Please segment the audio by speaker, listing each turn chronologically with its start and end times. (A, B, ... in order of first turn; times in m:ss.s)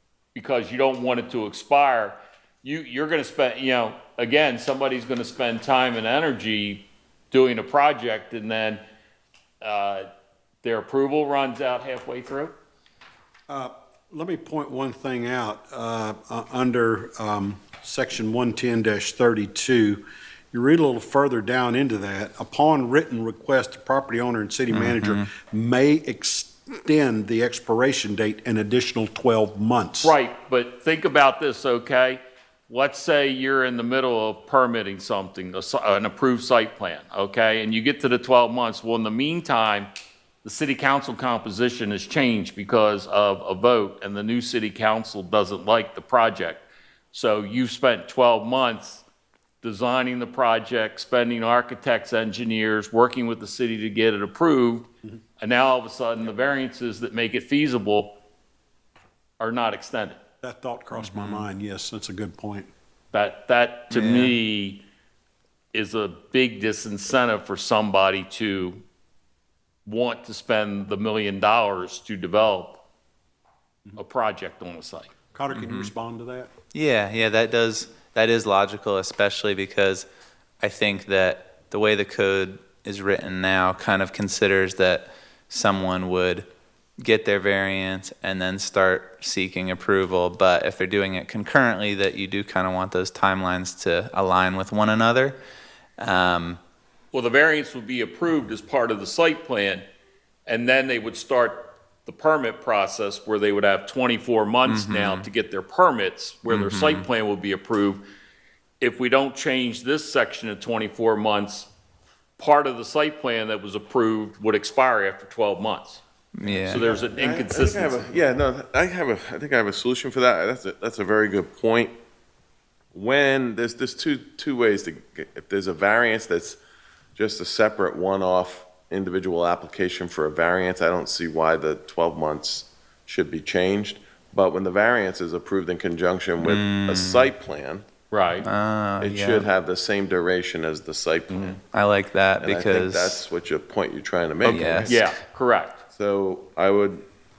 0:00.3-0:08.8 A
0:09.6-0:10.1 A
0:10.6-0:12.5 A
0:13.5-0:30.1 B
0:24.7-0:25.3 C
0:30.0-0:39.9 A
0:40.4-0:49.0 A
0:49.6-0:58.2 A
0:59.4-1:00.2 A
1:00.4-1:02.7 B
1:00.9-1:01.5 C
1:03.1-1:04.8 A
1:03.9-1:04.3 C
1:05.7-1:08.8 A
1:09.8-1:12.8 A
1:14.0-1:15.1 A
1:15.3-1:16.5 B
1:15.5-1:15.9 C
1:16.7-1:20.0 C
1:20.6-1:26.4 C
1:27.0-1:35.4 C
1:36.0-1:36.6 C
1:37.1-1:39.8 A
1:40.5-1:48.0 A
1:44.6-1:45.3 C
1:46.5-1:47.0 C
1:48.8-1:51.7 A
1:52.4-1:58.1 A
1:56.4-1:56.9 C
1:56.4-2:02.0 D
2:02.9-2:06.6 D
2:07.2-2:17.8 D
2:16.4-2:17.3 C
2:18.1-2:18.5 A
2:18.4-2:19.5 C
2:19.0-2:21.6 D
2:21.3-2:21.6 A
2:21.7-2:23.2 C
2:22.4-2:25.0 D
2:24.4-2:25.1 C
2:24.4-2:25.8 A
2:25.9-2:27.0 D